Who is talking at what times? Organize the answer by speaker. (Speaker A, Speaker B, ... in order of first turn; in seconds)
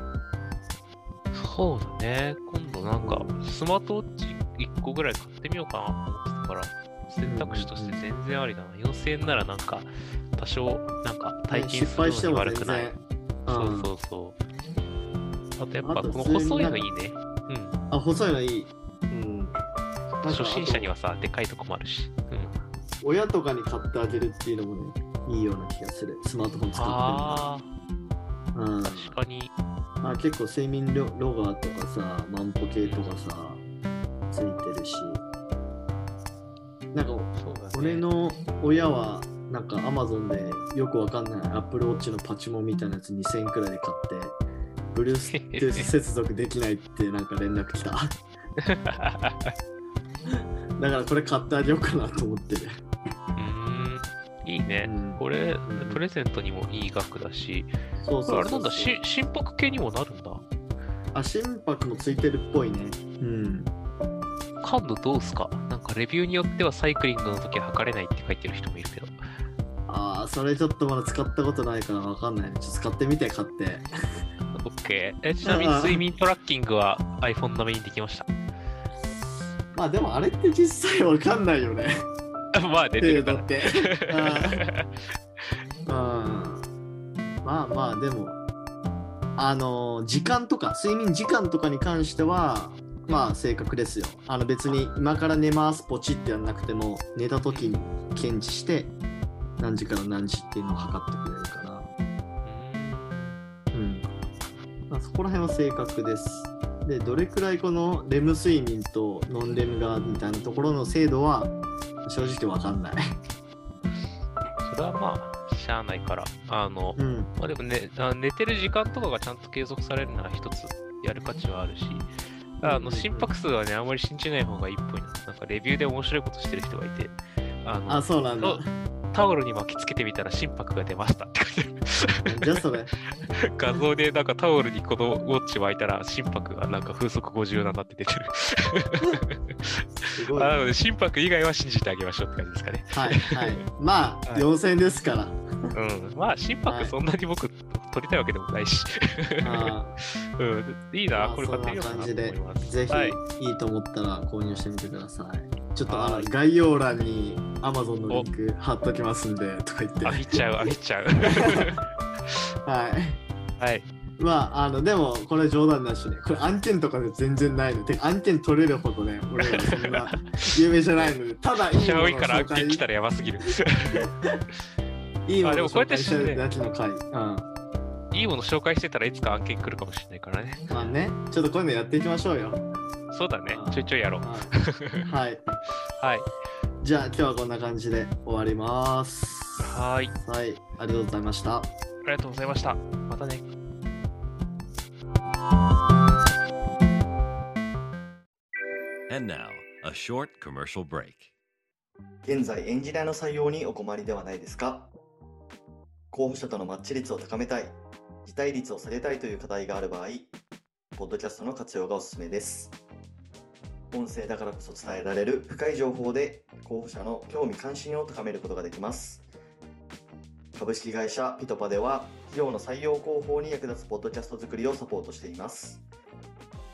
Speaker A: 1.3-12.9, 13.5-14.4, 15.6-17.8, 20.2-22.5, 26.7-27.7, 28.8-29.5, 32.8-33.1, 37.4-38.0, 45.3-45.9, 48.7-49.5, 53.4-57.7, 58.3-60.4, 64.6-69.2, 74.5-78.3, 82.5-84.9, 97.5-97.7, 102.4-103.4, 114.6-122.1, 122.6-132.1, 133.5-139.7, 140.3-143.5, 145.7-149.7, 150.4-153.2, 155.9-156.3, 160.0-161.8, 163.6-163.8, 169.6-171.2, 171.7-174.0, 175.4-176.4, 178.1-180.7, 183.1-185.1, 186.0-186.2, 189.6-190.1, 192.0-193.5
Speaker B: 3.0-3.4, 7.2-8.0, 11.5-13.9, 15.8-16.9, 17.9-19.6, 20.2-20.9, 23.0-27.5, 28.5-29.2, 30.0-33.6, 34.3-35.2, 36.9-44.4, 44.9-48.2, 50.3-52.8, 54.8-56.0, 58.0-59.0, 61.1-63.7, 69.9-73.9, 75.4-76.0, 79.7-82.0, 83.0-84.6, 85.9-86.6, 87.4-88.4, 89.4-98.9, 99.6-101.9, 103.7-104.1, 104.9-113.1, 117.0-117.3, 122.6-123.3, 127.9-128.7, 132.3-132.9, 140.1-140.6, 142.9-145.7, 146.7-146.9, 149.4-149.9, 151.1-160.3, 161.3-161.7, 162.7-163.2, 164.2-172.8, 174.0-174.4, 175.2-177.5, 180.7-182.6, 183.5-185.4, 186.8-191.7
Speaker C: 199.1-201.3
Speaker D: 202.2-204.9, 206.1-207.7, 208.2-210.3, 210.9-212.7, 213.9-219.2, 220.5-225.8